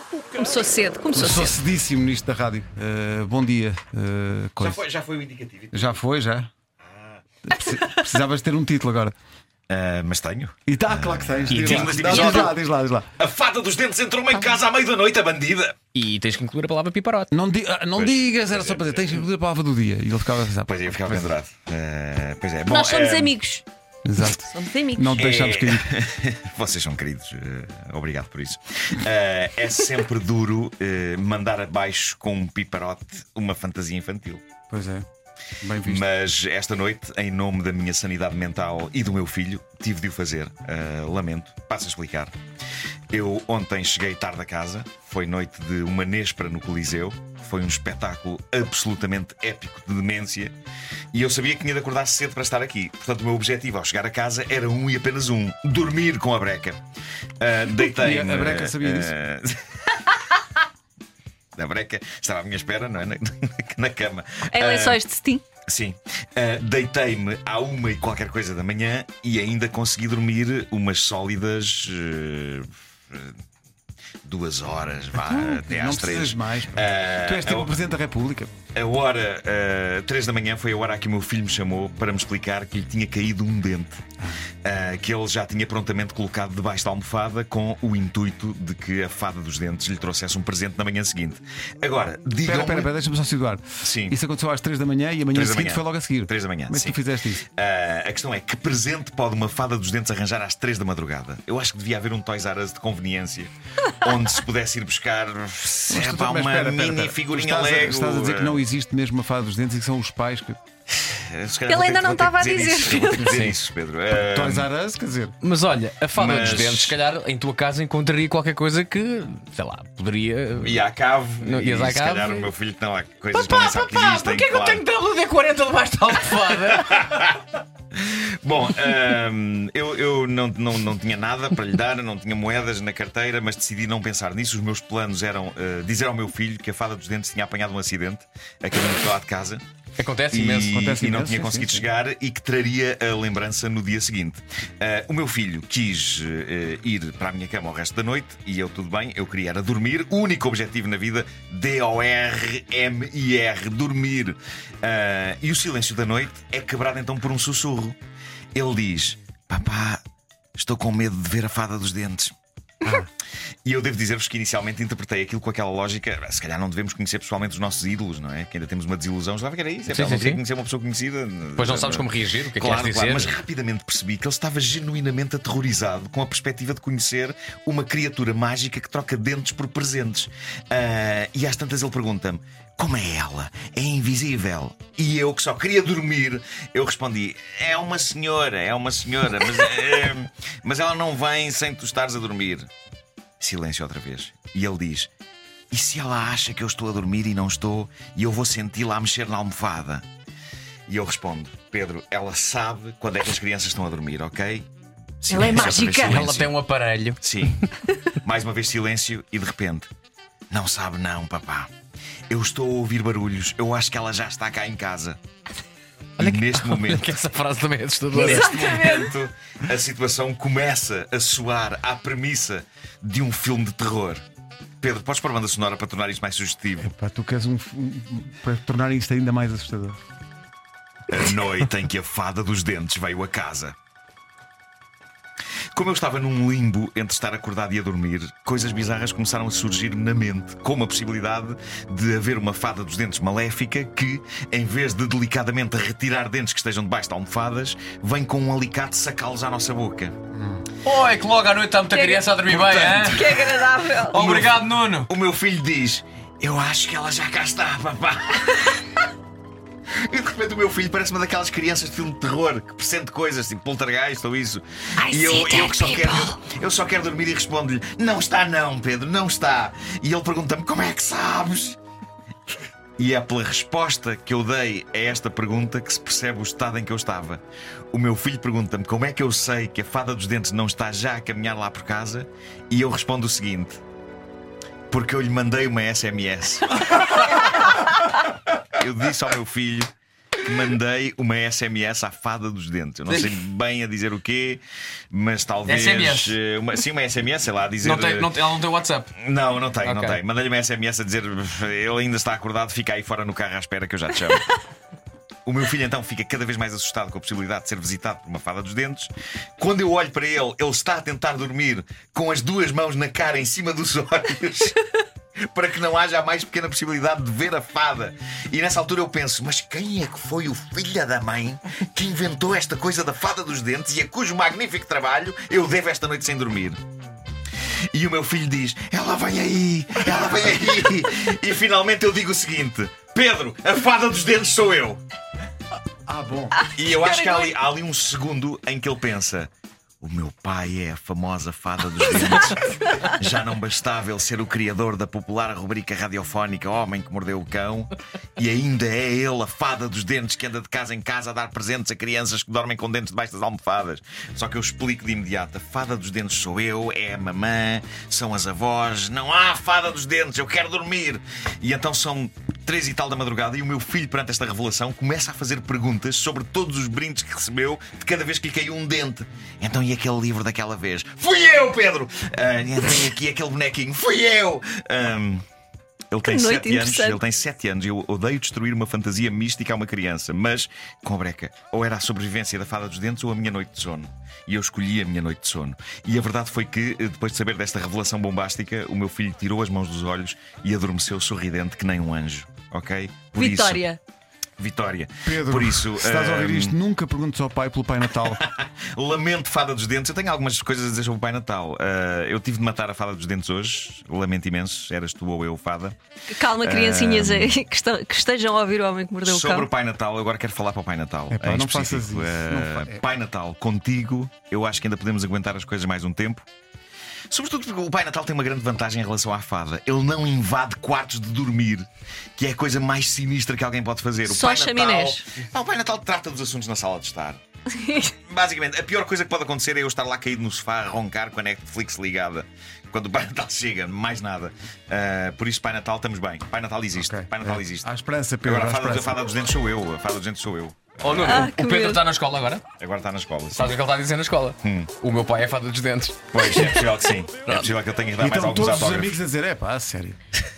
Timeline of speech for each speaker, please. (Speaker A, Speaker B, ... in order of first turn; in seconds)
Speaker A: 0.3-1.6, 22.7-23.6, 24.2-25.2, 64.5-65.4, 111.7-113.4, 205.3-206.3, 218.2-219.0, 251.9-252.2, 252.9-254.2, 265.0-266.4, 336.8-337.5, 376.2-377.2, 393.3-394.0, 406.3-409.7, 424.3-425.2, 427.7-428.1, 441.2-442.0
Speaker B: 1.1-4.8, 5.7-6.5, 7.4-9.1, 10.7-13.1, 17.3-21.3, 24.0-25.9, 34.7-35.0, 35.6-36.0, 57.9-59.1, 75.2-78.5, 92.4-97.4, 105.9-110.6, 114.1-115.3, 140.6-141.9, 226.8-230.0, 336.1-336.6, 395.2-398.4, 411.3-413.0, 436.9-439.2, 448.2-450.2
Speaker C: 4.6-5.8, 6.8-7.2, 9.7-12.6, 13.2-15.8, 17.9-19.2, 20.6-23.4, 25.1-34.4, 35.8-42.3, 43.1-50.5, 51.1-56.8, 57.4-60.2, 61.5-65.0, 65.7-73.3, 74.2-77.8, 78.7-84.0, 84.6-92.9, 93.8-94.2, 95.3-108.6, 111.0-114.7, 116.1-117.0, 120.5-124.8, 126.5-139.6, 140.3-158.0, 158.5-160.0, 160.6-162.3, 163.6-192.7, 193.4-195.1, 195.7-200.0, 200.9-204.7, 205.2-206.6, 207.2-207.6, 208.2-209.9, 210.5-211.7, 212.3-215.2, 216.2-217.2, 218.1-224.2, 224.8-226.9, 231.1-233.7, 235.7-250.1, 252.5-258.8, 260.0-271.8, 273.0-283.8, 284.9-287.3, 288.7-289.9, 290.4-298.4, 299.1-304.5, 305.4-314.8, 315.5-326.8, 327.9-335.0, 336.7-339.5, 340.0-375.4, 376.1-393.8, 394.6-396.8, 398.2-405.9, 406.6-407.6, 409.2-416.4, 417.3-427.4, 428.1-437.9, 438.4-441.4, 442.8-443.7, 444.6-444.9, 446.3-449.2
Speaker D: 11.5-12.5, 15.9-17.3, 115.4-120.8, 121.4-122.5, 123.3-127.2, 140.0-140.8, 169.9-170.4, 171.6-173.3, 205.5-207.7, 216.2-219.0, 250.8-253.3, 254.1-255.1, 295.6-296.4, 297.8-299.1, 299.8-300.2, 441.0-442.6, 443.5-446.8, 447.4-447.7